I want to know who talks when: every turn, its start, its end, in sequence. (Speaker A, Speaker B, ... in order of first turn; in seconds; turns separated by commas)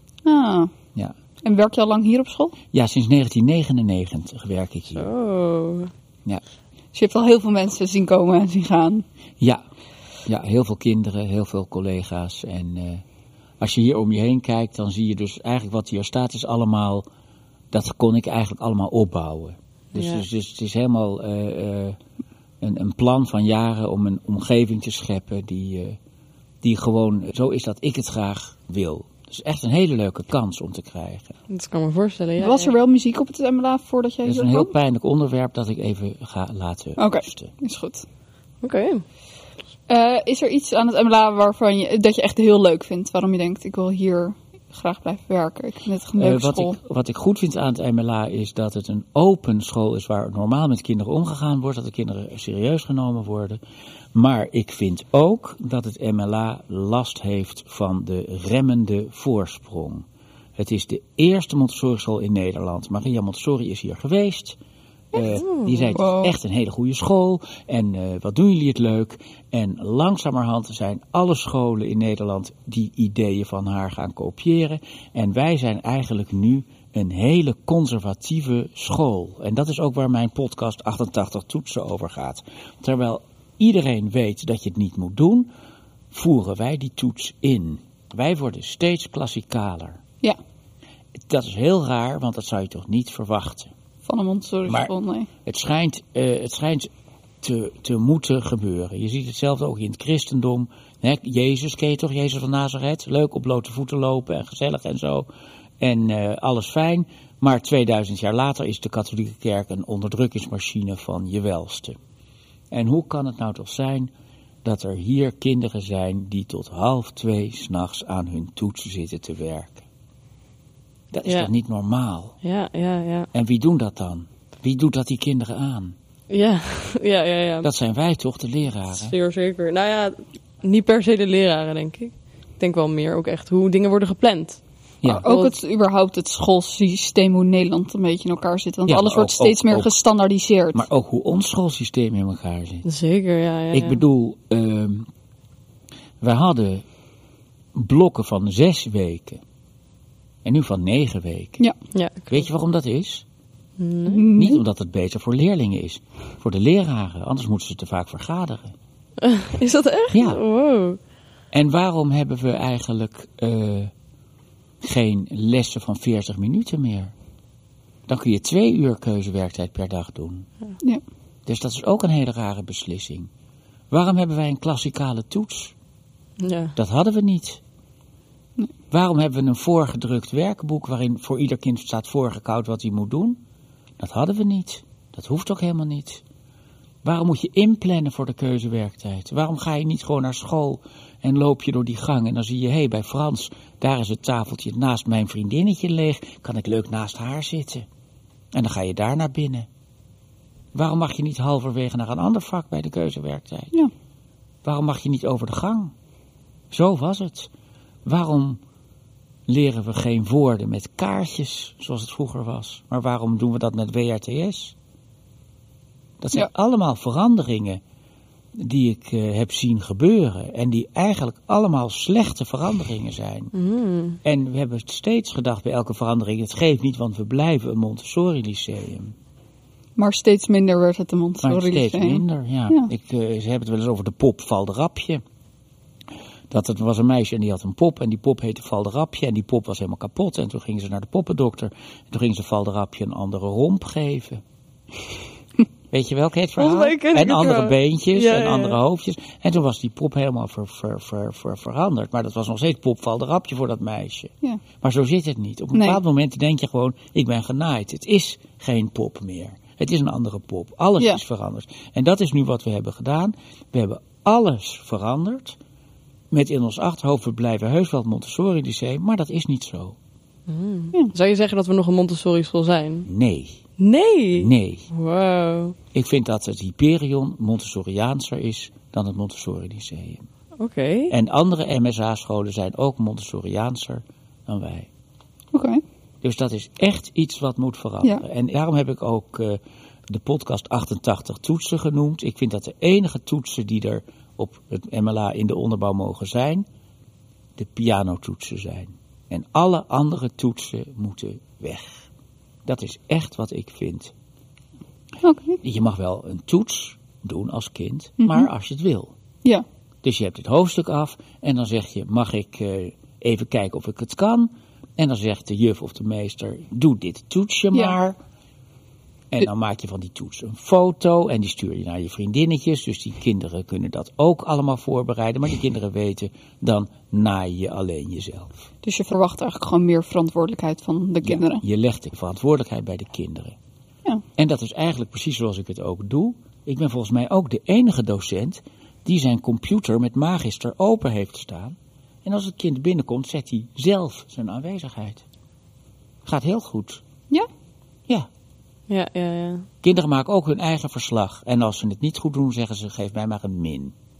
Speaker A: 0.2-0.7, Speaker A: 1.4-2.5, Speaker B: 2.7-5.1, Speaker C: 4.9-5.9, Speaker A: 6.9-9.0, Speaker B: 10.3-13.0, Speaker B: 13.6-17.1, Speaker B: 17.7-22.0, Speaker C: 19.9-20.2, Speaker B: 22.6-26.0, Speaker B: 26.6-31.3, Speaker C: 31.5-32.7, Speaker A: 32.4-34.7, Speaker B: 34.2-37.5, Speaker A: 37.0-38.0, Speaker C: 38.6-39.0, Speaker A: 39.9-46.8, Speaker B: 46.2-53.6, Speaker B: 54.1-60.0, Speaker B: 60.6-64.6, Speaker B: 65.1-85.5, Speaker C: 65.3-65.9, Speaker A: 65.9-66.3, Speaker B: 86.1-90.0, Speaker B: 91.3-93.7, Speaker A: 94.0-95.3, Speaker B: 94.7-94.9, Speaker B: 95.5-96.9, Speaker B: 97.4-105.3, Speaker B: 105.8-112.0, Speaker B: 112.7-114.1, Speaker B: 114.6-119.8, Speaker B: 121.1-122.4, Speaker C: 122.4-123.3, Speaker B: 123.3-125.9, Speaker C: 126.3-127.7, Speaker B: 127.6-129.1, Speaker C: 128.9-135.6, Speaker A: 135.1-140.8, Speaker B: 138.9-140.0, Speaker B: 140.7-142.8, Speaker C: 142.8-144.0, Speaker B: 143.7-145.1, Speaker B: 146.2-146.8, Speaker B: 147.7-149.4, Speaker B: 150.4-151.6, Speaker C: 151.9-152.4, Speaker B: 152.3-153.2, Speaker C: 153.8-154.3, Speaker A: 154.1-154.6, Speaker B: 154.3-158.7, Speaker C: 159.2-161.0, Speaker B: 160.1-160.4, Speaker B: 161.5-163.9, Speaker B: 164.8-167.1, Speaker B: 168.1-170.5, Speaker B: 171.5-173.3, Speaker B: 173.9-175.7, Speaker C: 176.4-176.7, Speaker B: 176.8-177.6, Speaker B: 178.9-183.4, Speaker B: 184.0-186.2, Speaker B: 187.0-197.8, Speaker B: 198.5-199.7, Speaker B: 200.7-203.7, Speaker B: 204.6-205.9, Speaker B: 206.7-207.5, Speaker B: 208.0-208.6, Speaker B: 209.5-214.7, Speaker B: 216.2-217.8, Speaker B: 218.5-223.5, Speaker C: 223.5-224.2, Speaker B: 224.2-229.1, Speaker A: 230.0-232.9, Speaker B: 231.4-235.2, Speaker B: 236.5-244.4, Speaker B: 245.9-265.6, Speaker C: 246.6-248.8, Speaker A: 255.7-256.0, Speaker B: 266.3-269.9, Speaker C: 270.5-273.1, Speaker B: 273.1-273.6, Speaker C: 273.8-275.8, Speaker B: 274.3-274.9, Speaker B: 275.9-280.3, Speaker C: 280.6-281.1, Speaker B: 281.1-284.9, Speaker A: 285.5-285.8, Speaker B: 286.2-296.6, Speaker B: 297.6-302.1, Speaker B: 302.6-304.1, Speaker A: 305.2-305.6, Speaker B: 305.6-309.1, Speaker A: 308.2-308.5, Speaker B: 310.0-318.1, Speaker B: 319.3-328.5, Speaker A: 328.8-331.6, Speaker B: 331.2-333.6, Speaker B: 334.4-345.2, Speaker B: 346.2-347.0, Speaker C: 348.9-349.6, Speaker B: 349.8-353.9